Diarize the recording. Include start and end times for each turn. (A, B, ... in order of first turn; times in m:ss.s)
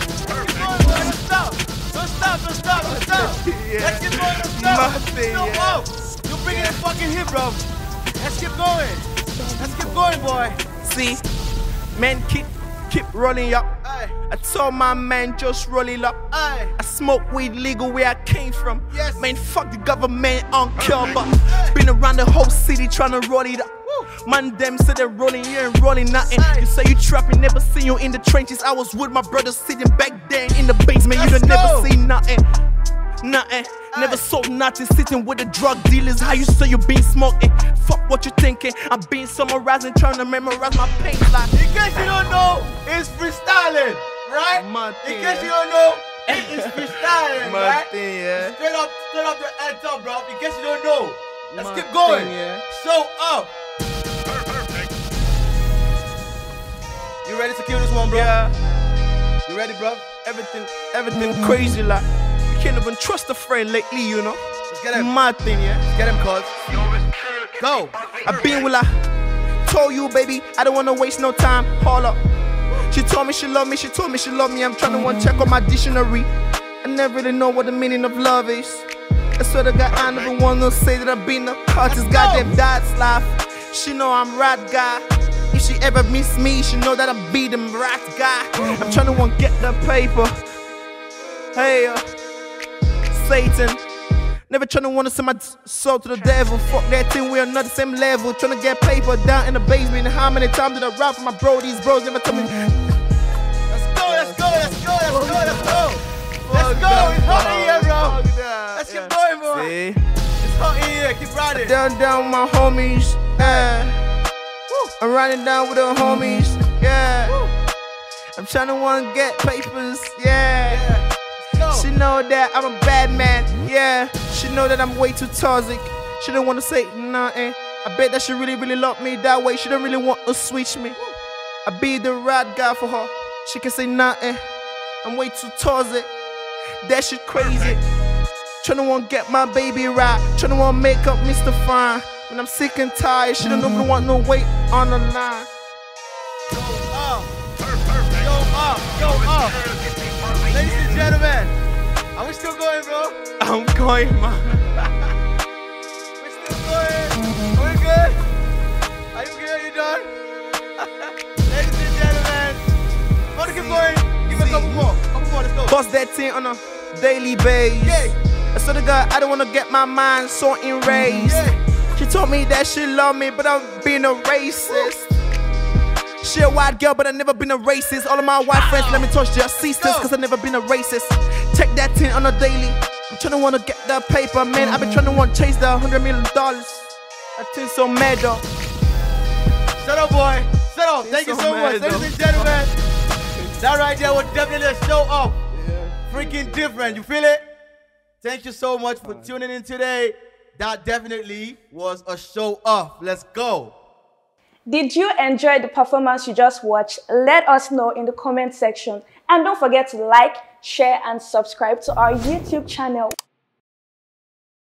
0:00.3-0:07.6 A
0:02.8-0:05.8 B
0:06.5-0:06.8 B
0:08.2-0:10.6 A
0:10.7-0:11.2 B
0:12.0-0:13.8 B
0:13.8-0:14.2 A
0:14.3-0:16.2 B
0:16.3-0:16.8 A
0:16.8-0:32.4 B
0:18.9-0:19.3 A
0:21.2-0:21.8 A
0:26.4-0:26.7 A
0:31.1-0:31.9 A
0:33.2-0:41.5 B
0:33.9-0:34.2 A
0:41.5-0:53.5 A
0:44.6-0:45.5 B
0:46.3-0:48.6 B
0:51.5-0:52.6 B
0:57.2-0:58.3 A
0:58.1-0:58.5 B
0:59.5-1:00.1 A
1:00.2-1:05.9 B
1:04.7-1:05.1 A
1:05.9-1:06.6 A
1:07.5-1:08.0 A
1:08.2-1:08.9 B
1:09.6-1:12.2 B
1:12.9-1:16.3 B
1:16.8-1:30.3 B
1:21.9-1:22.5 A
1:31.5-1:32.0 B
1:33.1-1:33.8 B
1:34.5-1:42.7 B
1:43.7-1:48.2 A
1:44.1-1:50.0 B
1:48.7-1:49.7 A
1:50.4-1:51.7 A
1:51.5-1:54.0 B
1:53.4-1:53.7 A
1:55.0-1:57.4 B
1:57.3-1:57.5 A
1:58.4-2:00.9 B
2:00.7-2:01.9 A
2:01.7-2:11.0 B
2:11.6-2:14.4 B
2:15.0-2:16.1 B
2:16.8-2:17.8 B
2:18.6-2:25.5 B
2:26.5-2:27.3 A
2:28.0-2:29.7 A
2:30.4-2:31.5 A
2:32.2-2:33.2 A
2:33.4-2:34.8 B
2:36.2-2:38.2 A
2:39.1-2:40.1 A
2:41.5-2:42.6 A
2:43.3-2:45.8 A
2:43.4-2:44.8 B
2:45.7-2:55.1 B
2:47.8-2:48.2 A
2:51.2-2:51.6 A
2:54.7-2:54.9 A
2:56.2-3:08.4 B
2:58.5-3:00.1 A
3:09.8-3:12.7 A
3:11.0-3:12.6 B
3:13.6-3:15.4 A
3:15.6-3:16.0 B
3:16.1-3:17.4 A
3:18.2-3:23.8 A
3:24.7-3:33.2 C